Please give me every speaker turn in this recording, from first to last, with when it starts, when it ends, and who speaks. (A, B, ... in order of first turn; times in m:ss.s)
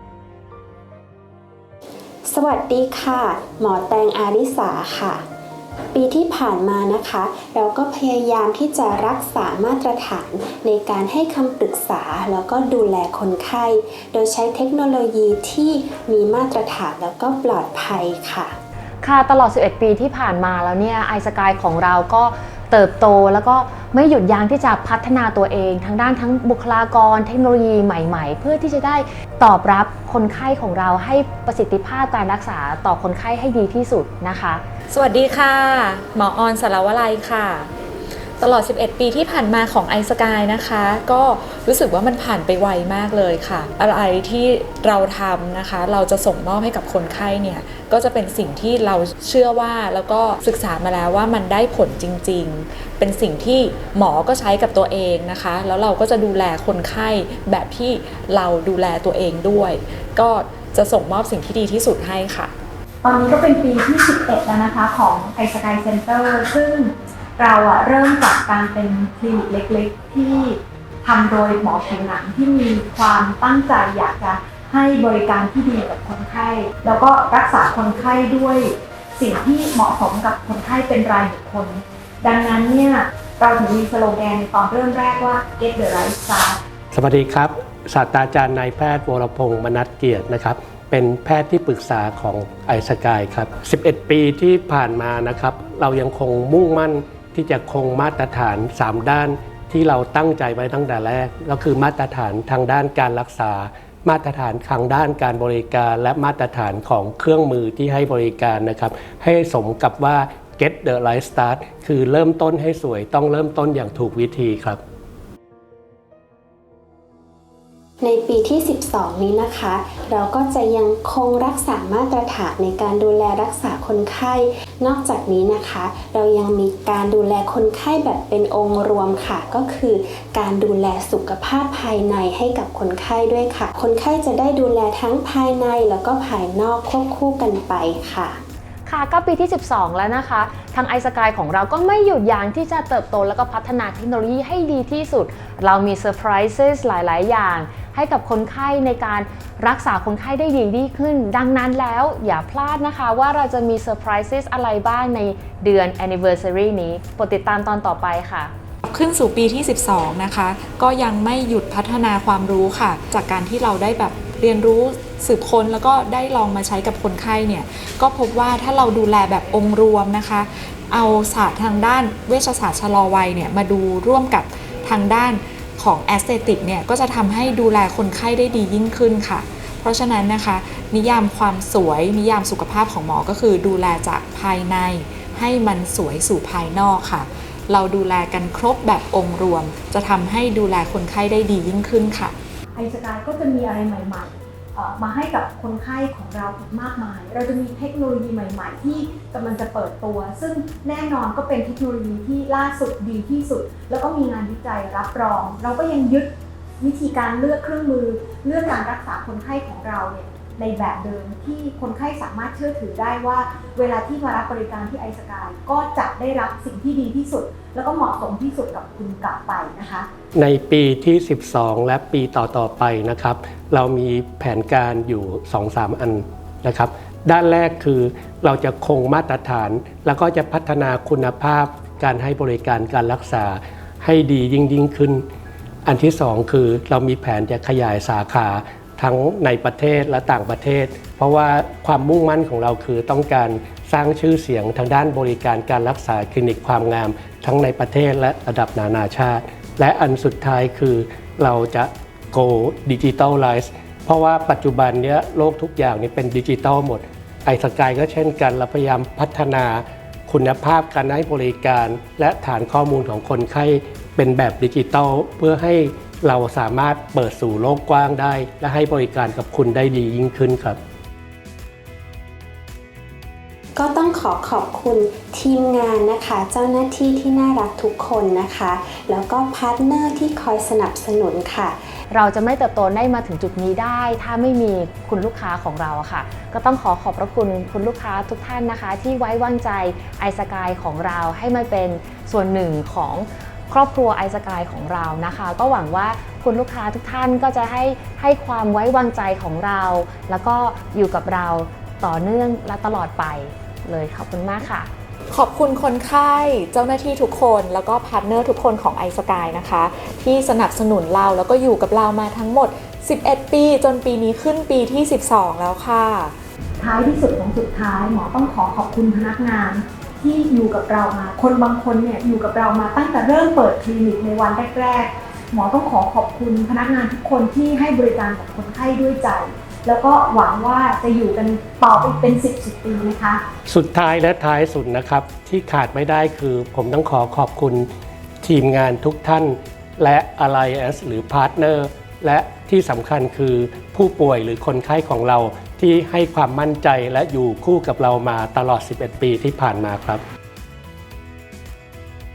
0:02.3-0:05.2 A
0:05.9-0:18.6 A
0:19.0-0:34.6 B
0:34.9-0:37.7 C
0:38.4-1:02.5 C
1:03.0-1:26.6 D
1:26.9-1:54.8 E
1:58.0-2:18.4 A
2:18.8-2:38.5 B
2:38.8-3:12.3 C
3:12.7-3:40.1 D
3:40.3-3:55.2 E
3:55.8-4:30.8 E
4:33.8-4:42.0 A
4:42.1-5:04.9 B
5:05.3-5:16.3 C
5:16.8-5:33.4 D
5:33.6-5:37.9 E
5:38.4-5:50.2 E